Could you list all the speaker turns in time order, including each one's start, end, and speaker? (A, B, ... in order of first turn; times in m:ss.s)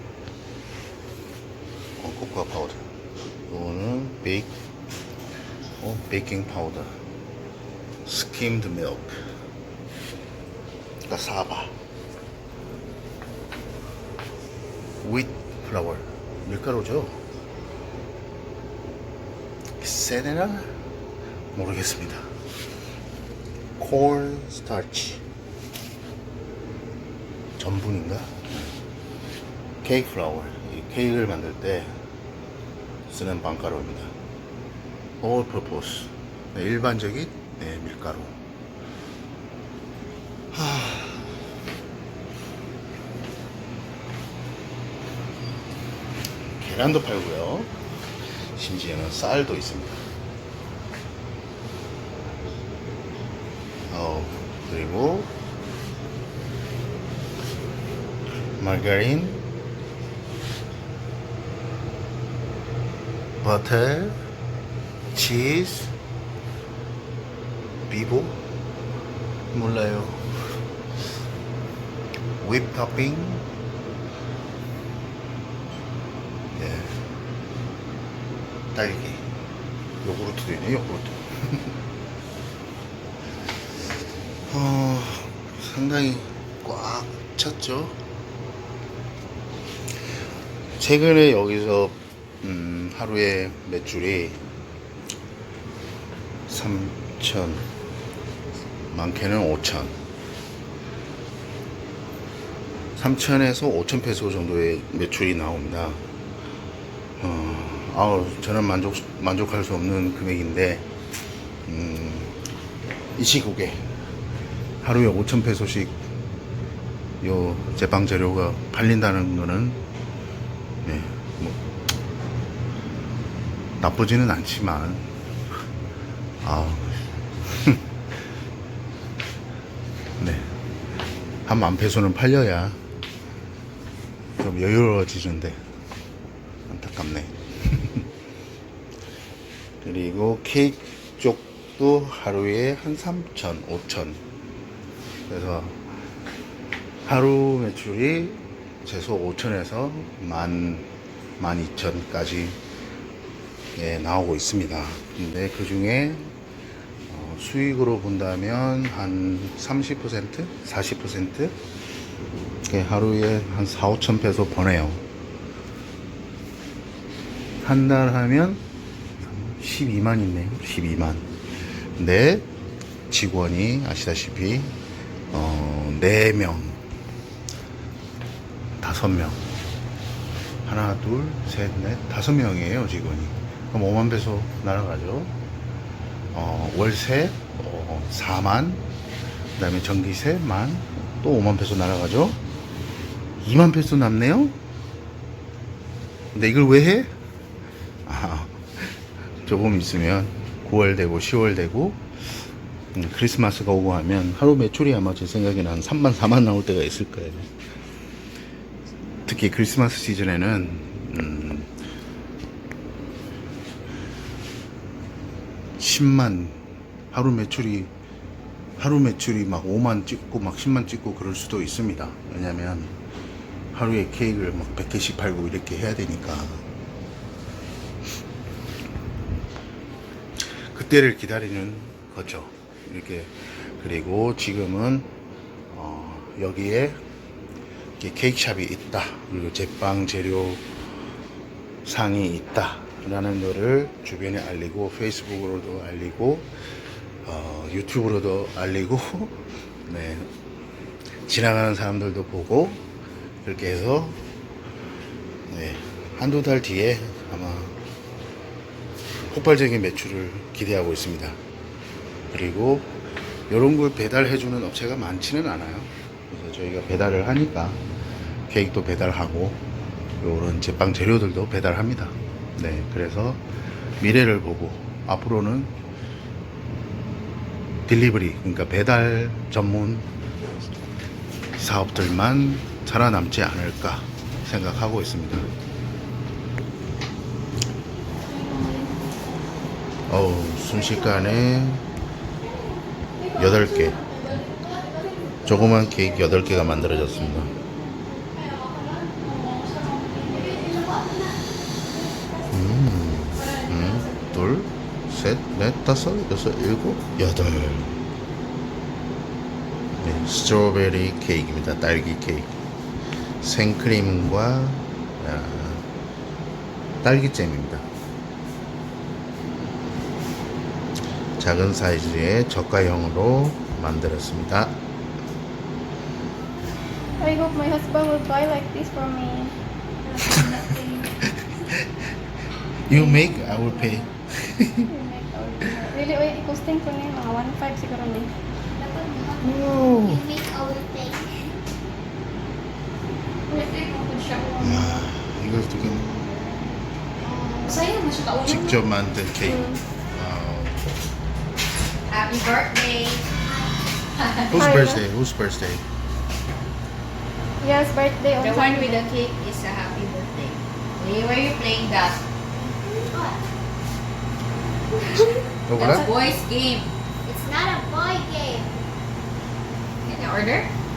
0:02.0-0:02.9 A
0:03.5-0:04.5 A
0:05.8-0:07.0 A
0:08.0-0:09.2 A
0:11.1-0:11.8 A
0:15.0-0:17.2 A
0:19.8-0:20.7 A
0:21.5-0:22.3 A
0:23.8-0:25.2 A
0:27.6-0:28.8 A
0:29.8-0:32.0 A
0:33.1-0:34.1 A
0:35.2-0:38.4 A
0:40.5-0:41.3 A
0:46.6-0:47.7 A
0:48.5-0:50.0 A
0:53.9-0:55.3 A
0:58.6-0:59.5 A
1:03.4-1:04.2 A
1:05.1-1:05.9 A
1:07.9-1:08.4 A
1:09.5-1:10.5 A
1:12.4-1:13.5 A
1:16.5-1:17.0 A
1:18.7-1:19.2 A
1:20.0-1:21.8 A
1:24.5-1:28.0 A
1:30.8-1:34.4 A
1:36.5-1:37.7 A
1:38.9-1:40.0 A
1:43.0-1:46.0 A
1:47.2-1:50.9 A
1:51.7-1:52.4 A
1:53.2-1:53.8 A
1:54.8-1:56.0 A
1:57.2-1:59.8 A
2:00.8-2:01.6 A
2:03.8-2:05.1 A
2:06.4-2:07.8 A
2:10.2-2:10.5 A
2:11.5-2:12.8 A
2:14.4-2:15.6 A
2:16.7-2:18.1 A
2:19.8-2:24.2 A
2:25.3-2:25.9 A
2:27.0-2:32.6 A
2:33.8-2:36.3 A
2:37.1-2:41.6 A
2:42.7-2:45.0 A
2:47.6-2:48.6 A
2:49.2-2:51.3 A
2:52.0-2:52.5 A
2:53.1-2:54.8 A
2:55.3-2:56.8 A
2:58.8-2:59.4 A
3:00.6-3:05.3 A
3:06.3-3:08.8 A
3:09.6-3:12.4 A
3:13.4-3:14.6 A
3:16.3-3:17.1 A
3:18.1-3:22.1 A
3:22.9-3:27.5 A
3:29.3-3:31.7 A
3:35.8-3:36.6 A
3:37.1-3:37.9 A
3:38.8-3:42.9 A
3:43.7-3:46.6 A
3:50.5-3:55.1 A
3:55.7-3:57.0 A
3:58.0-4:00.6 A
4:01.8-4:06.5 A
4:07.2-4:10.3 A
4:11.2-4:12.8 A
4:13.4-4:14.2 A
4:15.5-4:17.8 A
4:19.2-4:21.4 A
4:22.3-4:23.0 A
4:23.5-4:27.8 A
4:28.5-4:29.6 A
4:30.2-4:33.5 A
4:34.0-4:35.8 A
4:37.9-4:40.1 A
4:41.6-4:45.5 A
4:48.2-4:49.4 B
4:50.1-4:51.9 A
4:52.4-5:02.5 B
4:53.3-4:54.4 A
4:55.4-4:57.6 A
5:00.5-5:00.8 C
5:02.5-5:08.0 A
5:03.4-5:04.4 B
5:10.0-5:12.6 A
5:13.4-5:15.8 A
5:17.0-5:17.8 A
5:21.4-5:24.8 A
5:27.2-5:29.6 B
5:30.2-5:30.5 A
5:30.3-5:31.0 B
5:31.2-5:31.9 A
5:32.9-5:34.9 A
5:32.9-5:34.1 B
5:34.9-5:38.3 B
5:38.8-5:41.6 C
5:39.4-5:40.2 A
5:43.5-5:45.0 B
5:43.5-5:44.5 D
5:44.6-5:46.2 A
5:47.2-5:48.1 C
5:47.7-5:48.6 D
5:48.3-5:48.6 B
5:48.4-5:50.9 A
5:49.4-5:49.8 B
5:52.1-5:53.3 D
5:53.4-5:53.8 C
5:54.2-5:54.6 D
5:54.5-5:55.8 A
5:54.6-5:55.0 B
5:57.6-5:59.1 B
5:58.4-6:02.2 D
6:02.6-6:03.4 C
6:05.7-6:06.1 A
6:05.8-6:07.0 D
6:07.2-6:08.8 C
6:10.0-6:10.7 D